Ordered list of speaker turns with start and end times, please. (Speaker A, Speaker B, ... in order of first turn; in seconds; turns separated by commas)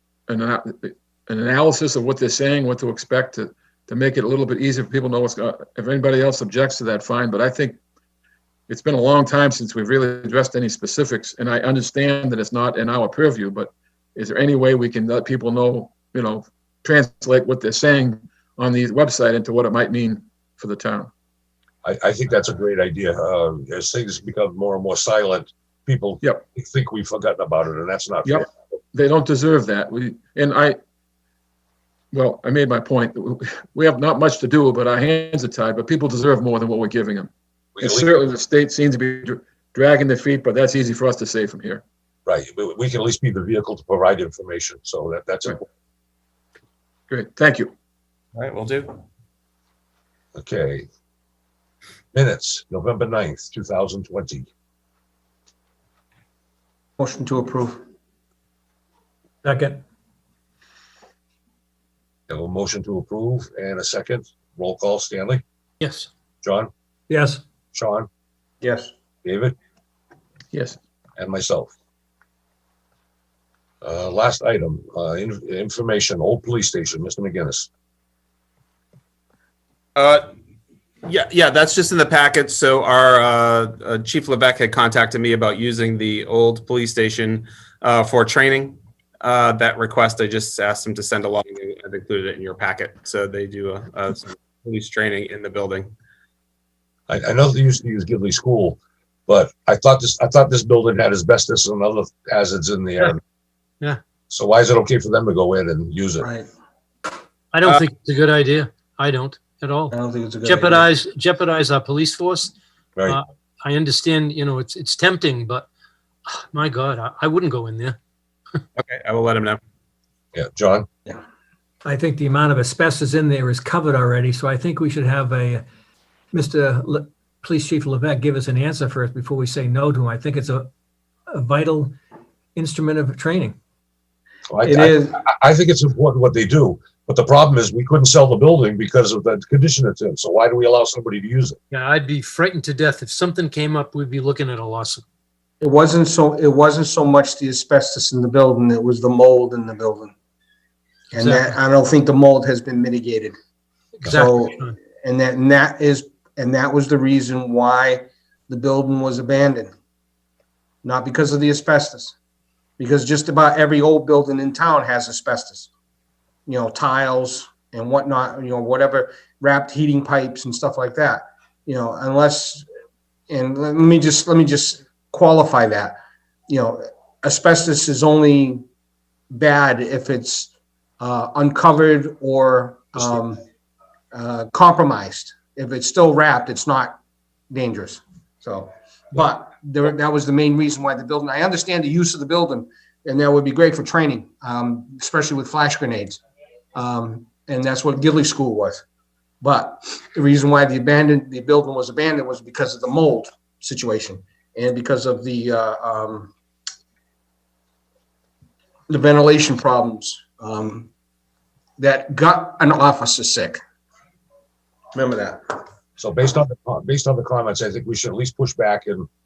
Speaker A: 0.3-7.8, Speaker A: 8.7-21.1, Speaker B: 21.8-28.5, Speaker A: 28.2-30.8, Speaker A: 32.1-37.3, Speaker B: 37.8-38.1, Speaker A: 37.8-41.8, Speaker B: 42.3-45.6, Speaker A: 47.1-47.7, Speaker C: 48.3-49.0, Speaker B: 50.3-50.9, Speaker B: 52.1-54.5, Speaker D: 57.0-57.8, Speaker E: 59.4-59.8, Speaker B: 62.3-65.4, Speaker F: 65.8-66.1, Speaker B: 66.4-66.7, Speaker E: 67.1-67.4, Speaker B: 67.7-68.1, Speaker D: 68.6-68.9, Speaker B: 69.2-69.5, Speaker A: 70.5-70.8, Speaker B: 71.2-71.7, Speaker B: 73.8-77.7, Speaker C: 79.9-80.3, Speaker C: 81.0-95.9, Speaker B: 97.1-103.2, Speaker B: 104.3-106.3, Speaker D: 106.2-106.5, Speaker F: 107.5-112.5, Speaker D: 109.9-110.9, Speaker F: 113.1-115.7, Speaker F: 116.3-118.0, Speaker C: 118.8-119.6, Speaker B: 120.3-120.9, Speaker E: 121.8-125.6, Speaker E: 126.3-130.7, Speaker E: 131.3-131.9, Speaker E: 132.5-133.6, Speaker B: 134.5-141.6, Speaker D: 134.6-135.2, Speaker F: 141.7-145.0, Speaker D: 145.6-150.1, Speaker D: 151.1-153.3, Speaker F: 151.1-151.6, Speaker F: 154.0-154.8, Speaker D: 154.0-159.7, Speaker D: 160.8-162.1, Speaker D: 162.8-165.7, Speaker D: 166.5-172.7, Speaker D: 173.3-176.0, Speaker D: 176.5-178.6, Speaker D: 179.3-183.4, Speaker D: 184.1-187.0, Speaker D: 187.5-196.2, Speaker D: 196.8-198.8, Speaker D: 199.4-206.3, Speaker D: 208.9-210.9, Speaker D: 211.8-213.6, Speaker D: 214.9-215.6, Speaker B: 216.0-219.1